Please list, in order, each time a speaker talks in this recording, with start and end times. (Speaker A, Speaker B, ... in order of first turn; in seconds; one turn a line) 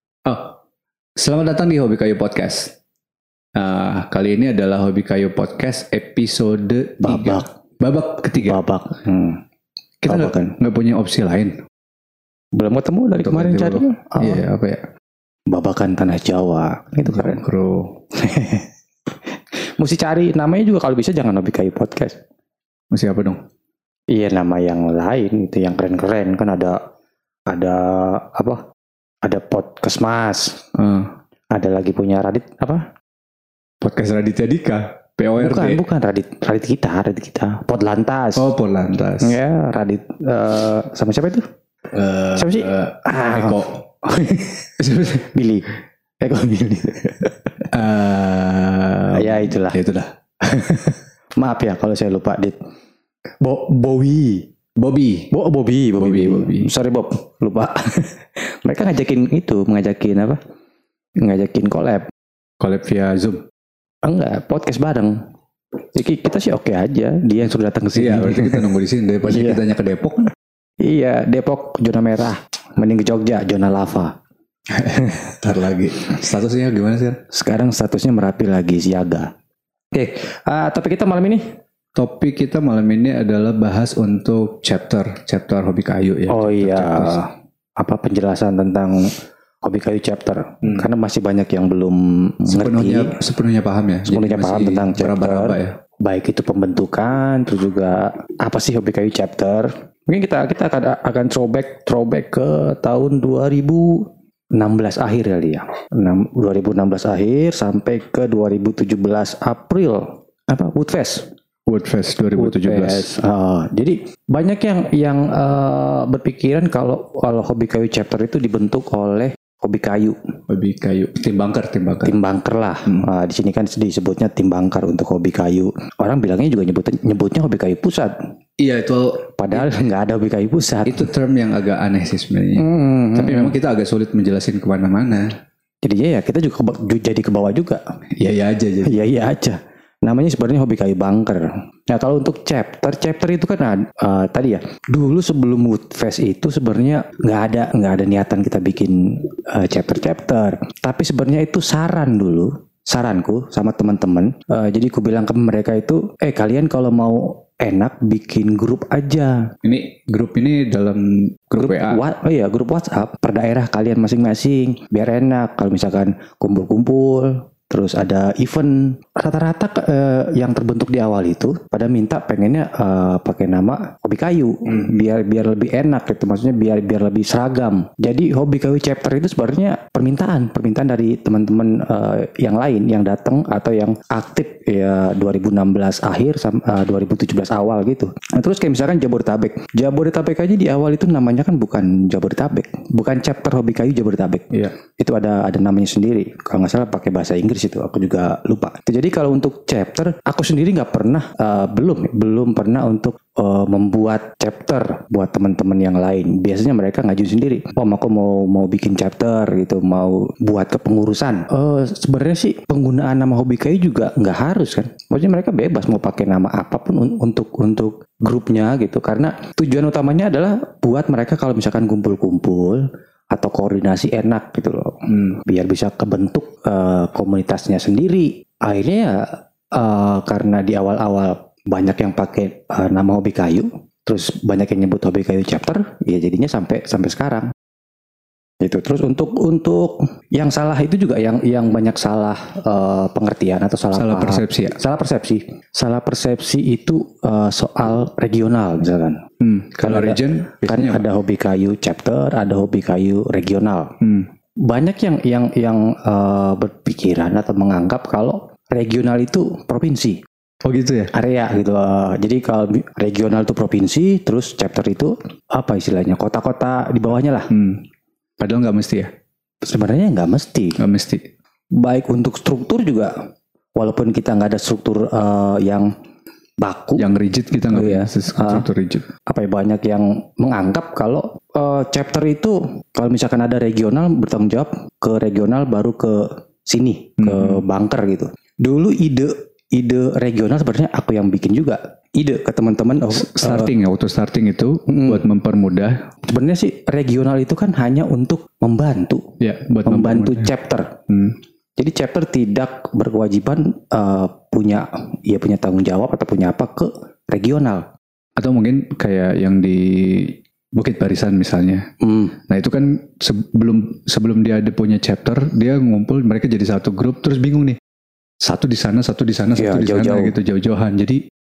Speaker A: 0.2-0.5
Speaker A: 1.2-2.7
Speaker A: 3.5-8.6
Speaker B: 7.0-7.5
Speaker B: 8.4-9.4
Speaker A: 10.0-11.6
Speaker B: 10.1-10.5
Speaker B: 12.5-14.4
Speaker A: 13.2-14.8
Speaker B: 15.5-17.4
Speaker A: 17.0-17.9
Speaker B: 18.1-18.7
Speaker B: 19.5-22.2
Speaker A: 22.9-23.4
Speaker B: 24.1-26.8
Speaker B: 27.5-28.6
Speaker B: 29.2-30.6
Speaker A: 30.7-31.1
Speaker B: 31.5-32.9
Speaker A: 33.8-35.8
Speaker B: 35.4-38.5
Speaker A: 38.4-39.4
Speaker B: 39.2-41.5
Speaker A: 41.9-43.8
Speaker B: 42.3-47.7
Speaker A: 44.8-45.3
Speaker A: 47.7-50.1
Speaker B: 49.1-49.8
Speaker B: 50.4-52.6
Speaker B: 53.4-54.5
Speaker A: 54.8-55.3
Speaker B: 55.3-60.4
Speaker A: 56.0-56.7
Speaker B: 61.2-62.1
Speaker A: 62.6-63.4
Speaker B: 64.0-65.2
Speaker B: 65.9-68.7
Speaker A: 67.9-70.3
Speaker B: 69.3-69.6
Speaker B: 70.8-74.2
Speaker A: 74.7-77.2
Speaker B: 77.3-79.3
Speaker B: 79.9-81.4
Speaker A: 82.0-87.2
Speaker B: 86.3-89.1
Speaker B: 89.6-93.1
Speaker A: 92.5-95.8
Speaker B: 94.0-111.3
Speaker A: 111.7-113.1
Speaker B: 112.3-120.2
Speaker A: 120.5-122.2
Speaker B: 122.0-128.1
Speaker A: 128.6-129.8
Speaker B: 129.4-131.1
Speaker A: 130.8-135.3
Speaker B: 132.5-133.6
Speaker B: 135.8-137.8
Speaker A: 138.2-139.1
Speaker B: 138.8-159.5
Speaker A: 159.6-162.0
Speaker B: 161.6-237.5
Speaker A: 225.1-225.4
Speaker B: 238.6-249.2
Speaker A: 243.9-244.8
Speaker A: 249.4-251.0
Speaker B: 249.8-253.9
Speaker A: 254.0-254.3
Speaker B: 254.6-260.2
Speaker A: 260.6-261.1
Speaker B: 261.1-267.5
Speaker A: 267.5-267.8
Speaker A: 268.4-269.1
Speaker B: 269.6-270.8
Speaker A: 270.8-271.2
Speaker B: 271.7-273.1
Speaker B: 273.8-275.9
Speaker B: 276.6-277.0
Speaker A: 277.0-279.1
Speaker B: 277.7-278.6
Speaker B: 279.2-293.7
Speaker A: 287.2-287.6
Speaker A: 293.1-296.0
Speaker B: 294.9-295.2
Speaker B: 296.3-299.2
Speaker A: 299.4-300.5
Speaker B: 299.8-300.9
Speaker A: 301.1-301.3
Speaker B: 301.8-307.9
Speaker A: 308.4-311.9
Speaker B: 312.0-312.3
Speaker A: 312.5-317.8
Speaker A: 318.4-321.2
Speaker B: 319.6-320.4